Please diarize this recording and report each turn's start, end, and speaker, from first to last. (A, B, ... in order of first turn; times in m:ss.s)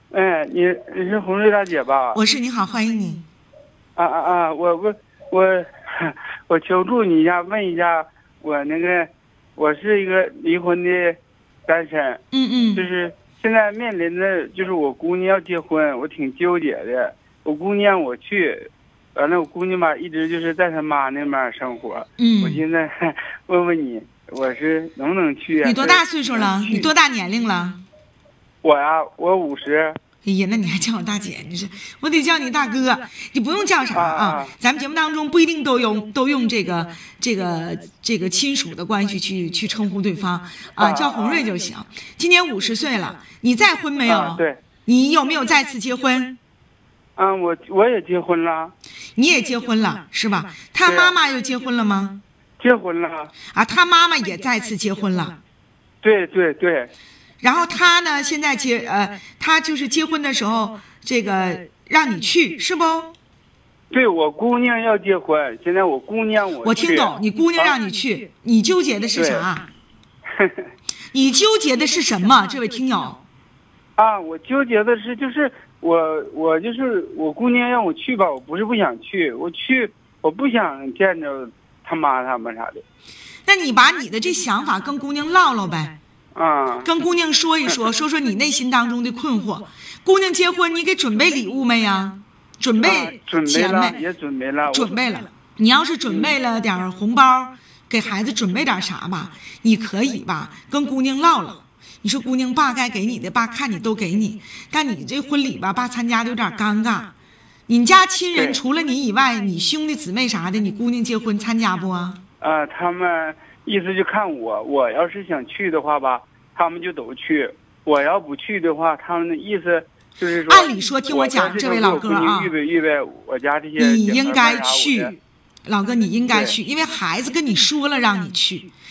0:00.1-0:02.2 A
0:02.1-0:03.2 B
0:04.0-0:12.2 A
0:12.3-0:12.9 B
0:12.7-0:26.9 A
0:22.2-0:22.6 B
0:25.6-0:27.8 B
0:28.6-0:30.0 A
0:30.2-0:46.4 B
0:33.9-0:34.5 A
0:40.8-0:41.5 A
0:44.0-0:44.6 A
0:47.2-0:48.7 A
0:49.2-0:52.2 B
0:50.8-0:51.1 A
0:52.6-0:53.3 A
0:53.5-0:55.4 B
0:56.0-0:56.9 A
0:57.4-1:03.1 B
1:03.9-1:07.8 A
1:06.6-1:09.7 B
1:09.2-1:09.4 A
1:10.3-1:10.7 A
1:11.1-1:13.2 B
1:14.0-1:22.8 A
1:23.4-1:26.0 B
1:26.3-1:26.9 A
1:26.8-1:34.0 B
1:32.8-1:35.0 A
1:34.7-1:47.1 B
1:36.1-1:36.3 A
1:47.7-1:52.2 B
1:52.4-2:05.1 A
2:00.5-2:02.5 B
2:03.8-2:08.7 B
2:06.3-2:06.5 A